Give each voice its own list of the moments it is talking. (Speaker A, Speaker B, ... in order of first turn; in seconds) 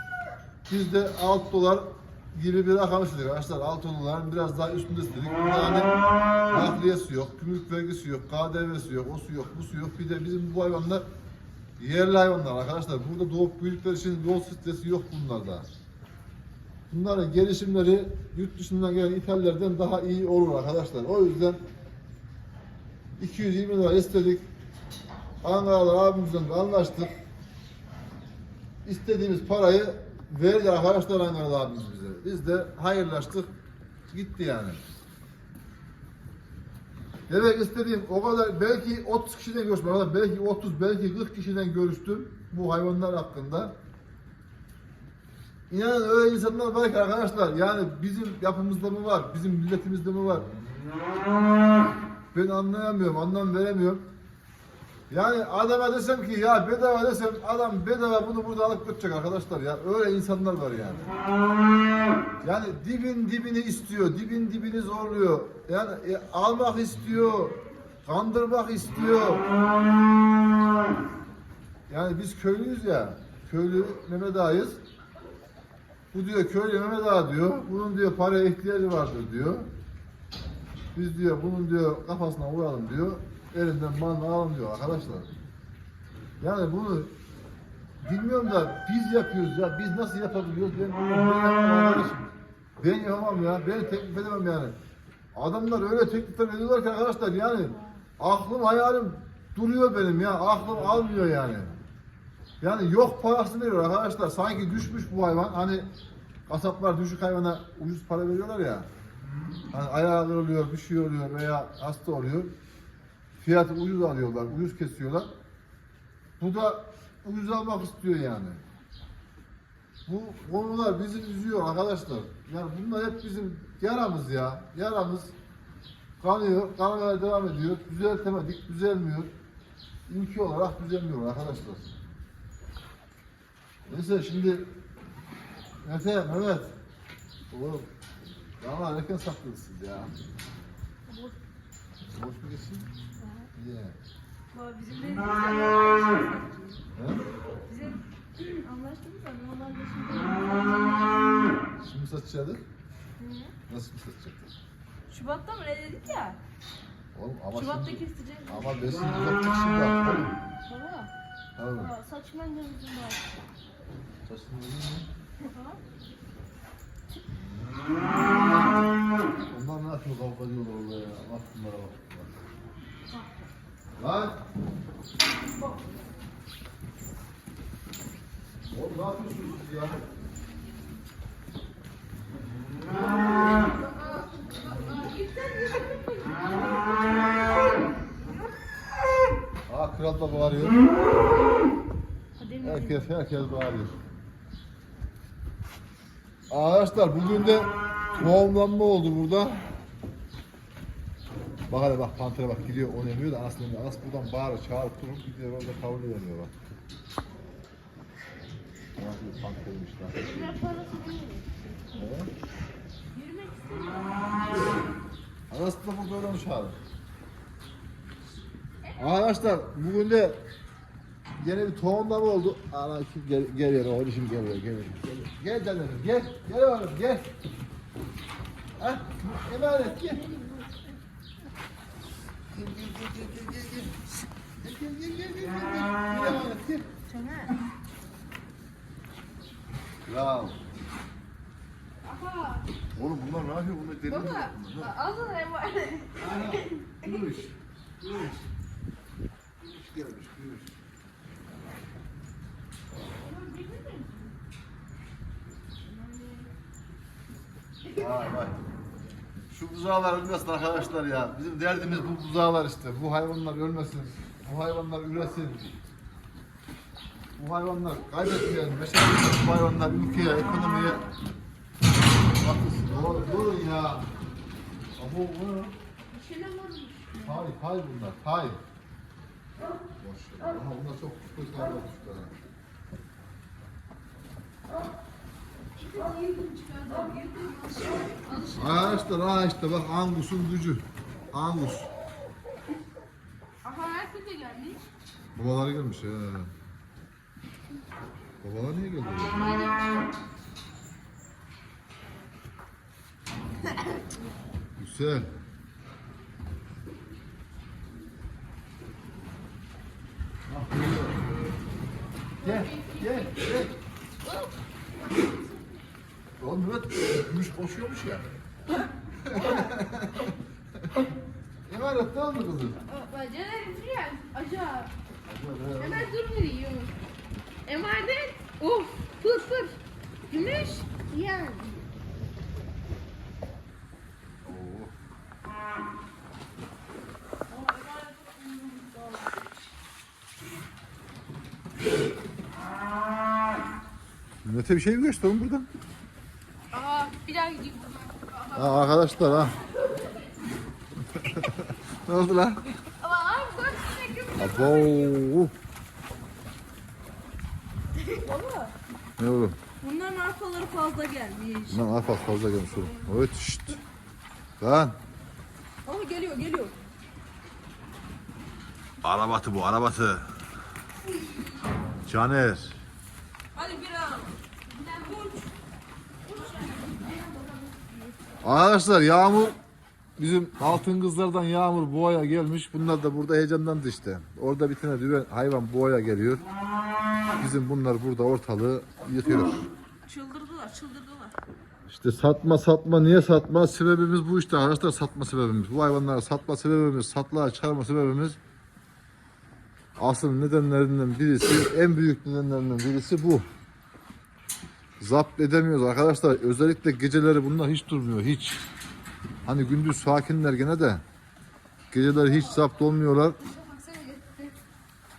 Speaker A: 0.7-5.9, 6.5-11.0, 11.8-15.7, 16.9-21.6, 23.2-24.4, 25.4-27.1, 28.8-33.5, 34.1-34.8, 37.3-43.7, 45.7-50.5, 52.3-54.1, 55.1-61.1, 62.4-69.5, 71.9-74.8, 76.1-79.7, 80.9-85.3, 86.4-87.1, 88.0-94.8, 95.3-101.8, 102.6-105.9, 106.5-108.9, 109.7-112.5, 113.4-115.3, 116.4-118.6, 120.0-125.3, 126.2-129.3, 130.1-131.9, 133.9-134.7, 135.8-136.7, 137.5-137.9, 138.6-140.1, 142.1-142.9, 143.5-143.9, 146.9-147.2, 151.8-152.6, 153.7-154.5, 157.1-160.3, 161.6-161.9, 164.2-165.1, 168.0-168.7, 169.5-172.3, 174.0-174.4, 178.7-180.0, 189.7-190.8, 192.6-193.9, 196.5-199.6, 201.7-206.5, 209.0-210.6, 211.9-212.3, 215.5-216.8, 218.9-220.4, 221.4-227.3, 228.8-230.2, 232.5-233.9, 234.6-236.8, 240.1-240.6, 242.9-244.9, 246.2-248.3, 249.6-250.7, 257.9-258.6, 259.5-265.8, 267.4-271.0, 272.4-274.1, 275.0-275.7, 277.2-278.6, 280.0-282.3, 288.6-291.9, 295.3-296.5, 298.4-299.5, 304.8-305.3, 310.5-311.2, 312.4-313.7, 316.4-318.2, 319.2-320.3, 321.6-322.8, 325.2-326.1, 334.4-334.9, 344.4-345.7, 348.5-349.6, 351.1-352.6, 354.4-355.5, 359.2-359.6, 361.7-363.8, 364.6-365.0, 369.0-370.3, 372.1-372.7, 378.4-379.6, 380.2-386.4, 387.4-389.7, 391.9-398.4, 400.0-403.4, 405.0-408.6, 409.4-411.0, 411.9-413.4
Speaker B: 141.1-141.3, 143.2-143.5, 144.5-146.8, 147.6-151.1, 153.2-153.5, 155.1-156.4, 157.5-158.7, 160.7-161.1, 165.4-165.8, 184.5-187.4, 237.1-237.5, 242.0-242.7, 244.1-246.3, 285.8-289.0, 293.6-294.9, 337.5-339.4, 354.6-354.9, 358.1-358.7, 359.8-361.9, 365.8-366.7, 373.5-375.5, 376.6-377.1, 377.6-378.0, 390.1-391.4
Speaker C: 161.8-163.2, 183.2-185.1, 192.4-193.1, 210.2-211.9, 213.1-214.3, 218.9-219.2, 229.7-230.8, 246.4-246.9, 253.2-254.3, 255.8-256.5, 276.1-277.4, 299.3-300.1, 312.4-313.5, 314.2-314.6, 319.3-319.7, 322.9-324.9, 325.8-326.9, 327.6-329.8, 330.3-331.8, 346.7-349.4, 353.0-355.1, 376.4-377.5, 413.4-414.5